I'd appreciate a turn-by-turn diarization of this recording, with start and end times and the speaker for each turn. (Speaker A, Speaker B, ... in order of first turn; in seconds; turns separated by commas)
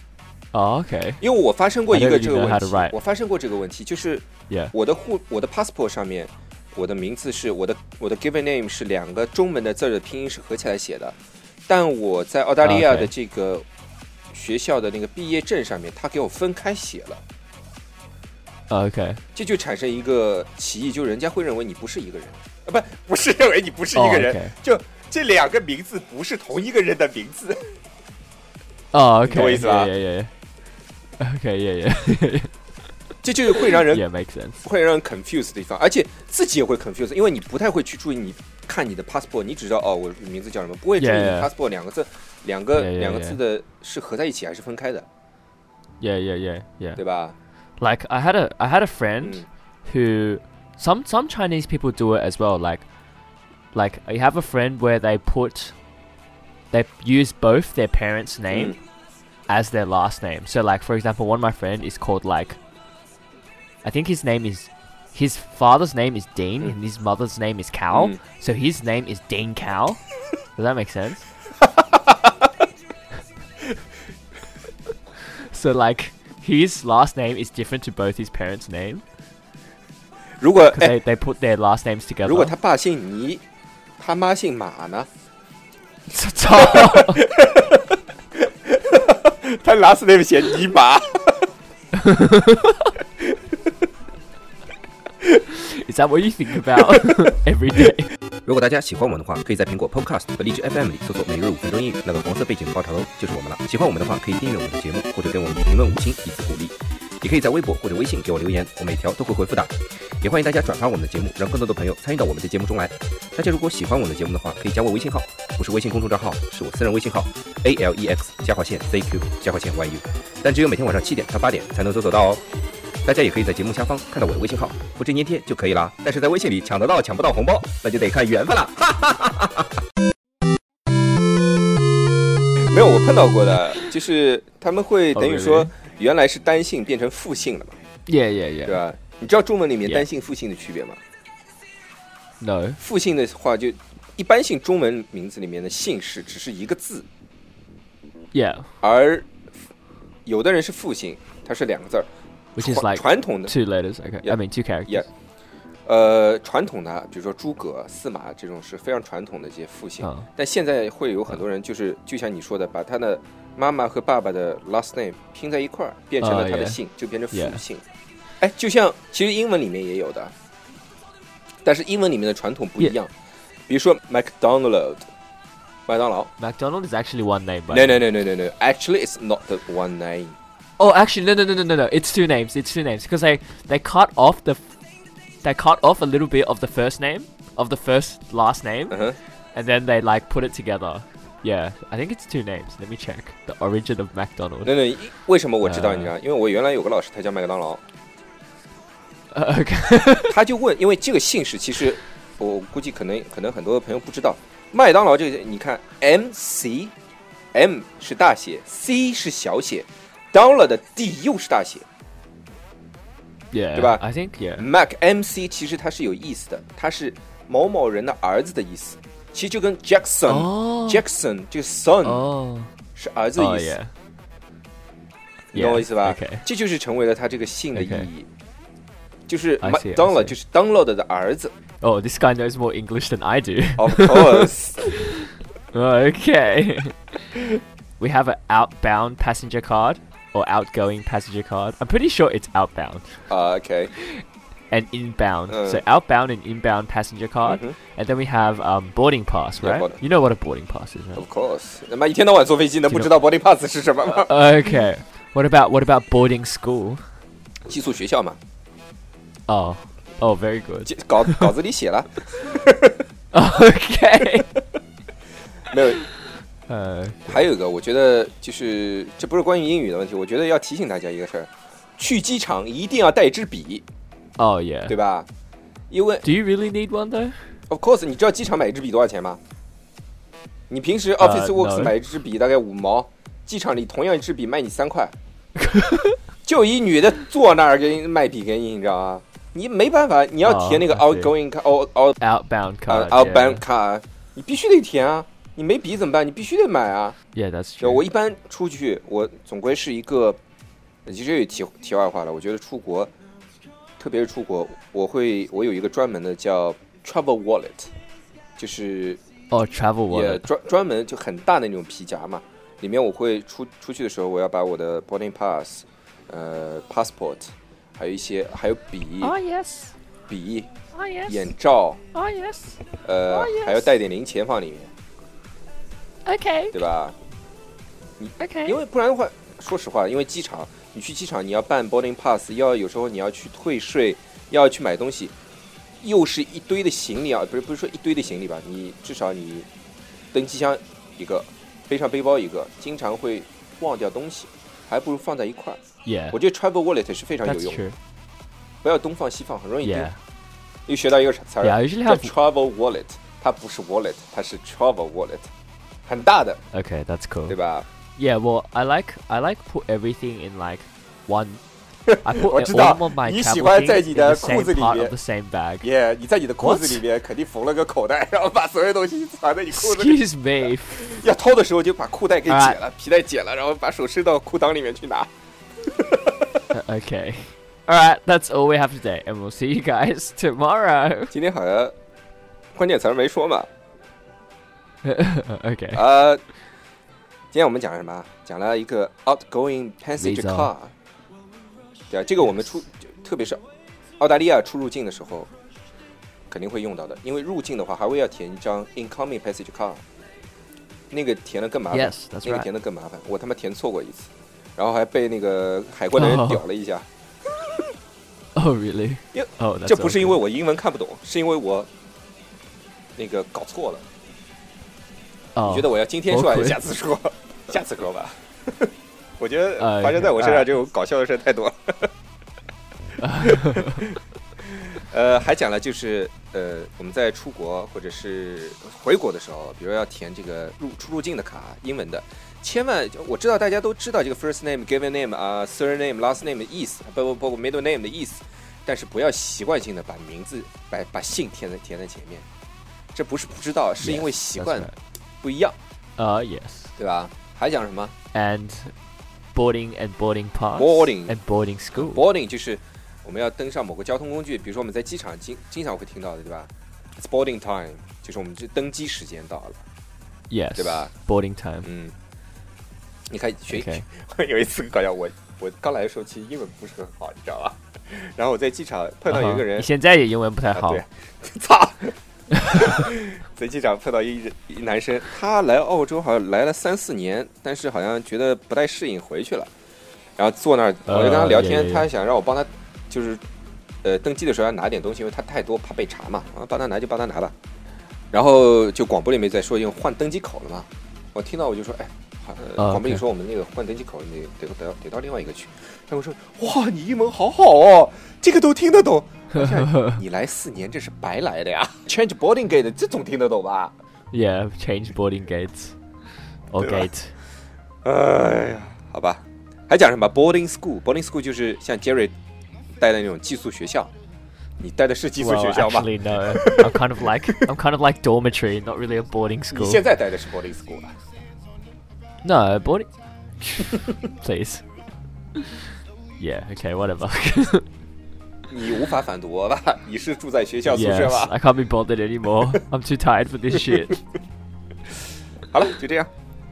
Speaker A: 0.5-1.2, Speaker B: 1.2-11.2, Speaker A: 1.9-3.0, Speaker B: 11.7-13.7, Speaker A: 12.6-13.1, Speaker B: 14.3-17.2, Speaker A: 18.7-19.2, Speaker B: 19.4-27.8, Speaker A: 23.9-24.6, Speaker A: 28.9-30.3, Speaker B: 29.2-29.9, Speaker A: 31.2-32.5, Speaker B: 33.2-34.0, Speaker A: 33.9-34.6, Speaker B: 34.6-45.1, Speaker A: 41.0-41.5, Speaker A: 42.7-43.4, Speaker A: 46.0-47.0, Speaker B: 47.0-47.4, Speaker A: 47.8-52.8, Speaker B: 49.2-49.5, Speaker A: 53.7-55.8, Speaker A: 56.7-58.8, Speaker B: 58.5-58.8, Speaker A: 59.5-62.6, Speaker A: 63.8-70.0, Speaker B: 67.9-68.2, Speaker A: 70.6-71.3, Speaker B: 71.8-72.3, Speaker A: 75.4-79.0, Speaker B: 80.4-81.0, Speaker A: 80.7-82.5, Speaker B: 82.2-83.4, Speaker B: 84.0-85.1, Speaker A: 86.1-87.2, Speaker B: 86.5-88.0, Speaker B: 88.7-91.5, Speaker A: 92.0-92.8, Speaker A: 95.5-98.1, Speaker B: 98.5-122.4, Speaker B: 123.0-129.7, Speaker B: 132.7-137.8, Speaker A: 135.1-135.7, Speaker A: 138.1-138.8, Speaker B: 138.7-141.0, Speaker A: 142.4-142.8, Speaker B: 142.8-147.1, Speaker A: 148.3-148.7, Speaker B: 148.8-149.3, Speaker B: 150.2-153.5, Speaker A: 152.6-155.1, Speaker B: 154.2-155.1, Speaker B: 155.9-167.8, Speaker A: 160.0-160.3, Speaker A: 166.2-167.6, Speaker B: 168.4-170.3, Speaker B: 171.6-173.1, Speaker B: 173.7-175.1, Speaker B: 175.9-176.3, Speaker A: 176.4-178.1, Speaker B: 177.7-180.4, Speaker A: 180.8-184.6, Speaker A: 185.4-189.0, Speaker B: 188.9-189.2, Speaker A: 189.5-194.7, Speaker B: 194.6-197.8, Speaker A: 195.6-196.2, Speaker A: 199.3-200.3, Speaker B: 200.2-206.9, Speaker B: 207.5-211.8, Speaker A: 213.5-214.7, Speaker B: 213.8-214.0, Speaker B: 214.6-222.2, Speaker A: 220.3-221.0, Speaker A: 222.0-222.7, Speaker B: 223.0-223.8, Speaker A: 223.4-223.9, Speaker B: 225.5-228.3, Speaker A: 225.5-226.4, Speaker A: 227.8-228.1, Speaker B: 229.3-231.5, Speaker A: 229.6-230.3, Speaker A: 231.8-237.2, Speaker B: 233.8-234.9, Speaker A: 238.0-243.1, Speaker B: 243.3-243.9, Speaker A: 244.1-251.2, Speaker B: 245.5-245.8, Speaker B: 247.4-247.8, Speaker B: 249.6-250.0, Speaker B: 251.2-254.3, Speaker A: 254.0-257.0, Speaker B: 257.7-258.4, Speaker A: 259.5-261.5, Speaker B: 260.9-263.0, Speaker A: 263.3-264.5, Speaker B: 265.7-266.0, Speaker A: 266.7-267.4, Speaker B: 267.3-273.8, Speaker A: 274.4-275.0, Speaker B: 274.9-275.3, Speaker B: 275.9-276.2, Speaker A: 276.2-277.4, Speaker B: 277.7-279.4, Speaker B: 280.7-285.1, Speaker A: 281.2-281.9, Speaker A: 285.6-286.2, Speaker B: 286.4-292.2, Speaker A: 290.4-291.3, Speaker A: 292.2-293.6, Speaker B: 292.9-297.2, Speaker A: 297.4-298.1, Speaker B: 297.8-300.4, Speaker B: 301.1-303.1, Speaker B: 304.0-307.9, Speaker B: 308.6-309.2, Speaker A: 309.5-310.4, Speaker B: 310.1-319.4, Speaker A: 319.2-319.9, Speaker B: 320.3-320.7, Speaker A: 320.9-321.5, Speaker B: 321.2-322.0, Speaker A: 322.1-322.8, Speaker B: 323.0-324.9, Speaker A: 323.3-323.9, Speaker A: 326.2-326.8, Speaker B: 326.7-327.2, Speaker B: 328.2-335.3, Speaker A: 328.4-328.8, Speaker B: 336.0-339.7, Speaker B: 340.3-345.8, Speaker A: 346.1-346.4, Speaker B: 346.3-347.9, Speaker A: 347.4-348.0, Speaker B: 348.8-350.1, Speaker A: 349.8-350.2, Speaker B: 350.9-355.5, Speaker A: 351.6-352.3, Speaker B: 356.1-356.6, Speaker A: 356.7-357.6, Speaker B: 357.5-357.9, Speaker A: 358.2-361.6, Speaker B: 362.1-365.1, Speaker A: 362.2-365.9, Speaker B: 365.8-370.2, Speaker A: 366.6-367.0, Speaker A: 369.7-371.1, Speaker B: 370.9-375.3, Speaker A: 372.5-372.8, Speaker B: 375.9-376.3, Speaker A: 376.7-381.3, Speaker B: 381.3-381.9, Speaker B: 382.8-383.7, Speaker A: 385.0-386.0, Speaker B: 385.9-386.4, Speaker B: 387.5-390.9, Speaker A: 390.2-390.7, Speaker B: 392.1-393.6, Speaker B: 394.2-395.5, Speaker B: 396.5-400.0, Speaker B: 401.1-407.1, Speaker A: 401.9-402.7, Speaker A: 406.2-406.6, Speaker A: 408.6-410.4, Speaker B: 409.3-411.9, Speaker B: 413.2-414.1, Speaker A: 415.6-416.8, Speaker B: 415.6-422.1, Speaker A: 419.8-420.7, Speaker A: 423.2-424.1, Speaker B: 423.4-423.8, Speaker B: 424.6-442.4, Speaker B: 443.1-444.9, Speaker A: 444.0-444.9, Speaker B: 445.4-445.8, Speaker A: 446.2-446.9, Speaker B: 447.0-448.1, Speaker A: 448.3-448.9, Speaker A: 449.5-452.2, Speaker B: 450.8-451.4, Speaker B: 451.9-459.8, Speaker A: 460.5-461.9, Speaker B: 460.8-461.1, Speaker B: 461.8-462.1, Speaker B: 463.3-469.9, Speaker A: 463.7-464.1, Speaker A: 469.3-471.0, Speaker B: 470.7-479.7, Speaker B: 480.4-483.4, Speaker A: 481.1-482.1, Speaker B: 484.0-487.5, Speaker B: 488.3-503.9, Speaker A: 492.8-493.2, Speaker A: 499.6-500.2, Speaker A: 504.3-505.9, Speaker A: 506.7-507.3, Speaker B: 506.8-507.1, Speaker B: 508.1-512.3, Speaker B: 513.0-514.1, Speaker B: 514.8-517.5, Speaker A: 515.4-520.0, Speaker B: 519.7-521.1, Speaker A: 522.4-523.1, Speaker A: 523.6-524.8, Speaker A: 526.4-527.9, Speaker B: 528.7-531.5, Speaker A: 530.9-534.2, Speaker B: 535.7-536.3